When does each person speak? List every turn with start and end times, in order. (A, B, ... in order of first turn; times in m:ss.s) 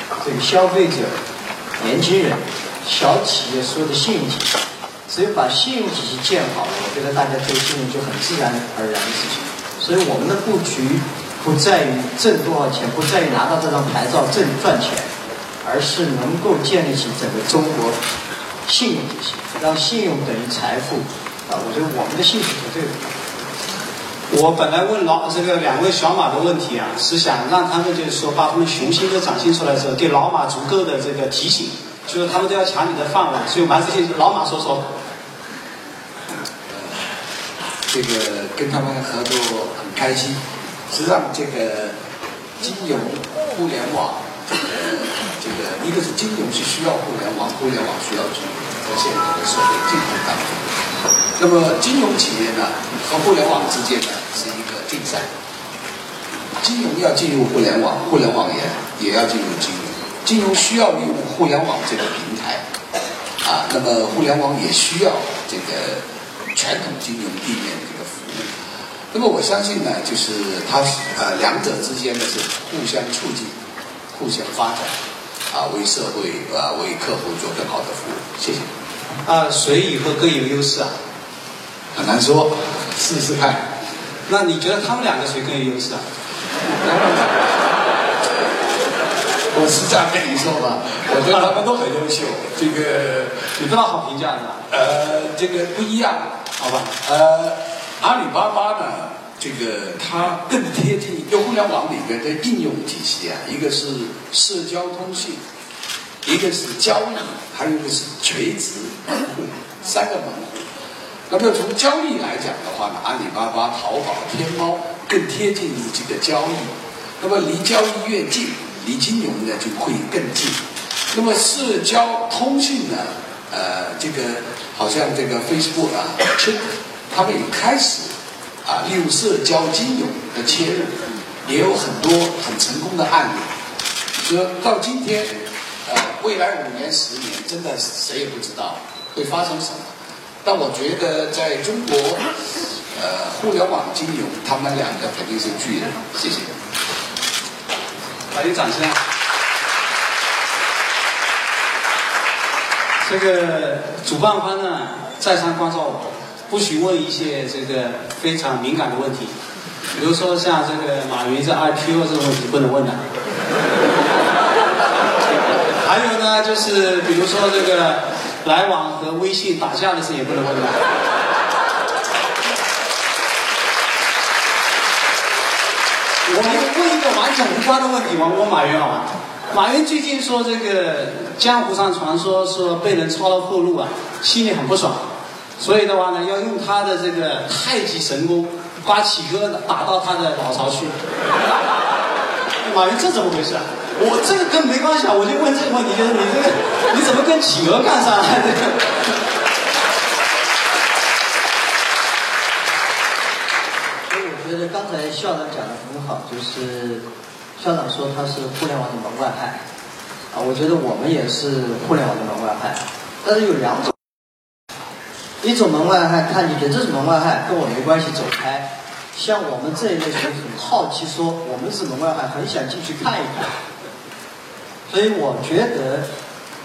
0:00.2-0:01.2 A
0:01.8-0:04.6 A
0:05.1-0:15.1 A
0:15.6-0:18.0 A
0:18.7-0:23.2 A
0:24.3-0:34.9 B
0:37.9-0:42.0 C
0:42.6-0:50.6 C
0:51.4-0:55.3 C
0:56.6-1:02.6 C
1:03.4-1:08.5 C
1:09.1-1:13.5 C
1:14.1-1:14.9 C
1:15.5-1:18.7 C
1:19.2-1:21.0 B
1:21.9-1:23.7 C
1:24.3-1:26.0 B
1:26.8-1:27.6 C
1:29.5-1:33.6 C
1:33.6-1:34.6 B
1:34.7-1:36.3 C
1:36.6-1:36.9 B
1:37.0-1:45.4 C
1:46.2-1:50.6 C
1:51.3-2:00.6 C
2:01.1-2:08.1 C
2:08.6-2:10.9 C
2:11.4-2:13.5 C
2:14.2-2:19.9 C
2:20.4-2:22.3 C
2:22.9-2:26.5 C
2:28.3-2:29.0 B
2:33.0-2:39.4 B
2:40.0-2:43.0 B
2:45.7-2:50.9 B
2:56.2-3:11.0 B
3:12.6-3:19.0 B
3:24.1-3:27.0 A
3:27.6-3:29.6 A
3:30.3-3:34.0 A
3:35.4-3:43.5 A
3:44.9-3:46.1 A